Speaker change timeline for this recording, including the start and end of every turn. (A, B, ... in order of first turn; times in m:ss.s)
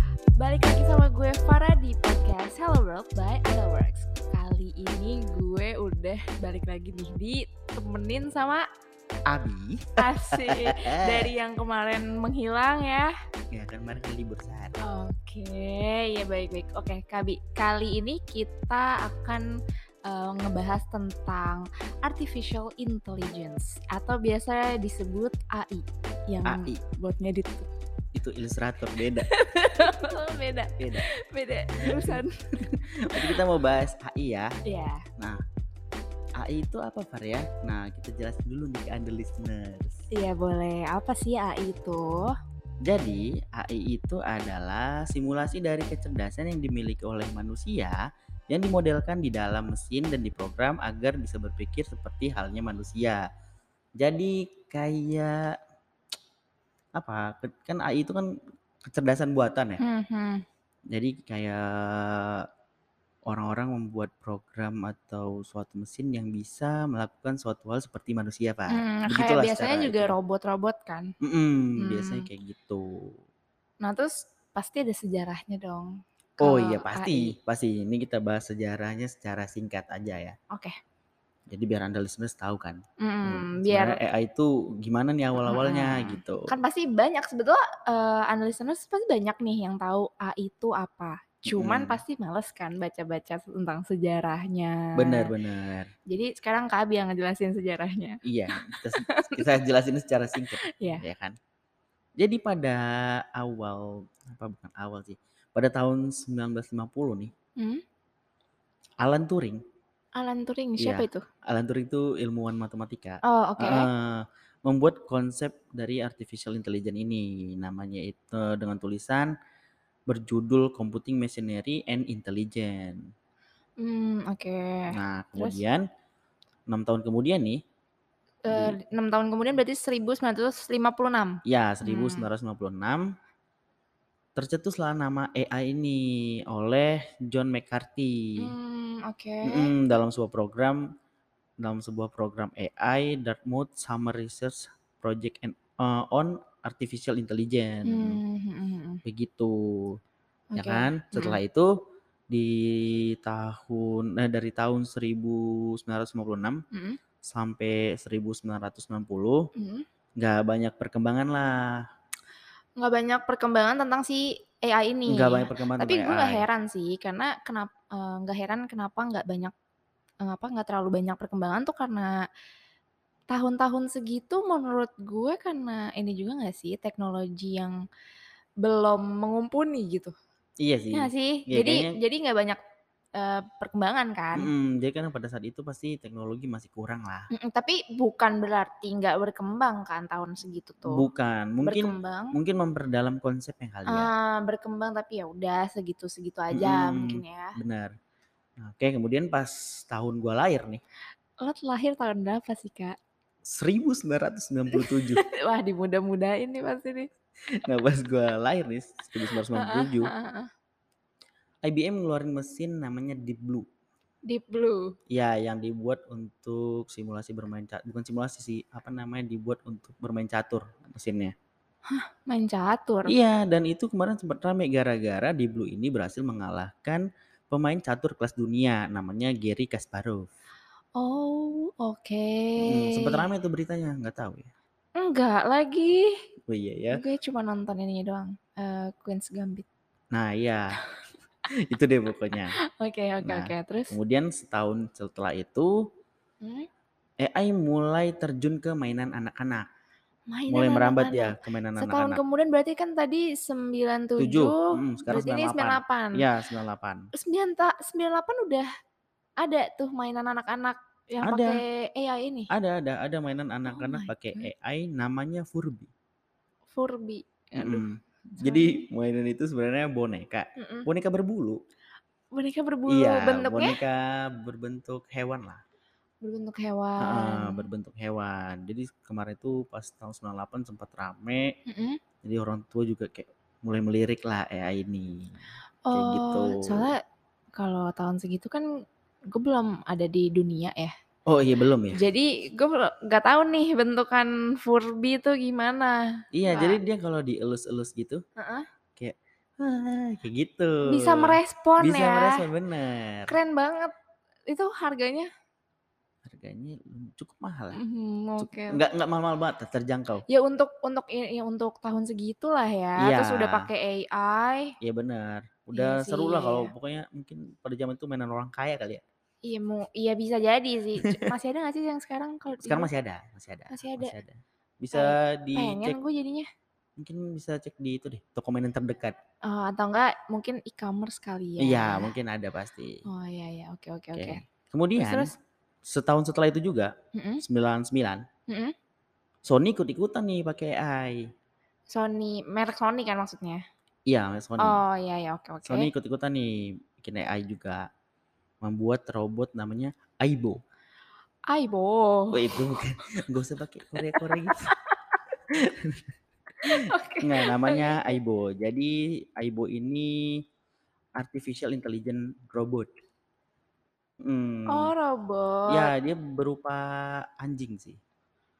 0:00.4-0:08.6 A
0:09.3-0:11.3 B
0:10.0-0:13.1 A
0:13.5-0:14.8 B
0:14.8-0:19.5 A
0:20.0-0:27.7 A
0:26.4-0:26.8 B
0:28.1-0:29.3 B
0:29.0-0:32.4 A
0:30.8-0:31.1 B
0:31.8-0:34.5 B
0:34.6-0:35.0 A
0:36.4-0:40.0 B
0:40.1-0:42.3 A
0:42.8-0:48.0 B
0:48.5-0:53.2 B
0:54.0-0:55.6 B
0:57.0-0:58.3 B
0:58.8-0:59.8 B
0:59.8-1:00.4 A
1:00.9-1:02.5 B
1:03.3-1:10.1 B
1:08.7-1:11.1 A
1:11.2-1:13.2 B
1:11.8-1:12.3 A
1:13.8-1:17.3 A
1:16.4-1:20.4 B
1:20.5-1:20.8 A
1:21.5-1:26.5 B
1:23.0-1:24.0 A
1:25.4-1:35.3 A
1:31.5-1:32.0 B
1:35.0-1:35.9 B
1:36.1-1:39.5 A
1:38.2-1:41.4 B
1:40.4-1:41.0 A
1:42.2-1:47.3 B
1:49.0-1:49.6 B
1:50.2-1:51.2 A
1:50.8-1:59.3 B
1:53.2-1:53.9 A
2:00.1-2:03.1 B
2:03.8-2:05.6 A
2:04.9-2:05.8 B
2:06.7-2:07.6 B
2:08.4-2:12.3 A
2:08.5-2:08.8 B
2:11.4-2:13.1 B
2:14.4-2:18.5 B
2:18.4-2:19.7 A
2:19.4-2:20.9 B
2:21.6-2:28.2 B
2:27.8-2:29.0 A
2:29.0-2:30.0 B
2:30.5-2:31.4 A
2:30.5-2:31.7 B
2:32.3-2:36.6 B
2:36.7-2:37.0 A
2:37.2-2:39.5 B
2:39.5-2:39.8 A
2:40.2-2:41.8 B
2:42.8-2:49.5 A
2:45.1-2:46.4 B
2:50.2-2:52.2 A
2:53.3-2:57.8 A
2:58.6-3:00.1 A
3:00.6-3:01.9 B
3:00.9-3:02.6 A
3:03.2-3:04.5 A
3:04.3-3:07.3 B
3:07.3-3:11.0 A
3:10.9-3:14.1 B
3:11.6-3:12.4 A
3:13.9-3:17.6 A
3:16.5-3:17.9 B
3:18.6-3:20.8 B
3:21.4-3:23.0 A
3:23.4-3:25.2 B
3:24.7-3:27.1 A
3:27.5-3:30.1 B
3:29.2-3:30.5 A
3:31.6-3:33.7 B
3:34.3-3:35.0 A
3:35.1-3:41.3 B
3:41.9-3:43.1 A
3:43.0-3:50.3 B
3:51.0-3:53.3 A
3:52.6-3:54.5 B
3:55.0-3:56.1 A
3:56.5-3:57.0 B
3:56.9-3:59.6 A
4:00.1-4:00.8 B
4:01.5-4:02.6 B
4:02.4-4:03.9 A
4:03.2-4:05.7 B
4:06.4-4:06.7 A
4:07.2-4:09.7 B
4:10.3-4:16.2 A
4:10.5-4:12.2 B
4:14.2-4:17.1 B
4:17.1-4:18.7 A
4:19.4-4:22.5 A
4:21.2-4:21.6 B
4:22.5-4:25.9 B
4:23.7-4:24.5 A
4:26.7-4:28.8 A
4:27.6-4:31.6 B
4:30.6-4:30.9 A
4:32.3-4:33.8 A
4:32.9-4:35.6 B
4:36.2-4:37.7 A
4:37.0-4:41.5 B
4:41.7-4:42.0 A
4:42.2-4:45.4 B
4:45.9-4:47.0 A
4:45.9-4:46.9 B
4:47.6-4:48.7 A
4:49.3-4:50.9 A
4:51.3-4:52.0 B
4:52.0-4:56.8 A
4:56.3-4:58.2 B
4:58.4-4:58.7 A
4:59.0-5:03.3 B
5:00.8-5:02.4 A
5:03.3-5:03.9 A
5:04.5-5:05.3 A
5:06.2-5:07.8 B
5:07.7-5:08.8 A
5:08.4-5:10.2 B
5:10.3-5:14.7 A
5:13.0-5:13.7 B
5:14.8-5:19.0 B
5:15.7-5:16.7 A
5:19.4-5:22.9 A
5:21.0-5:21.3 B
5:22.6-5:26.0 B
5:23.7-5:24.1 A
5:24.9-5:26.5 A
5:27.0-5:29.2 B
5:29.4-5:32.1 A
5:31.6-5:33.0 B
5:33.0-5:34.4 A
5:34.1-5:35.3 B
5:35.0-5:35.3 A
5:35.8-5:38.2 B
5:37.1-5:37.4 A
5:38.5-5:38.7 A
5:39.4-5:41.3 B
5:41.9-5:43.6 A
5:44.1-5:44.8 B
5:44.6-5:45.9 A
5:45.6-5:47.9 B
5:48.6-5:50.6 B
5:51.5-5:52.7 A
5:52.3-5:54.7 B
5:54.0-5:55.2 A
5:55.5-5:56.1 B
5:56.6-5:58.2 A
5:56.6-6:00.4 B
6:01.2-6:02.9 B
6:04.2-6:04.9 B
6:04.7-6:05.9 A
6:05.7-6:08.0 B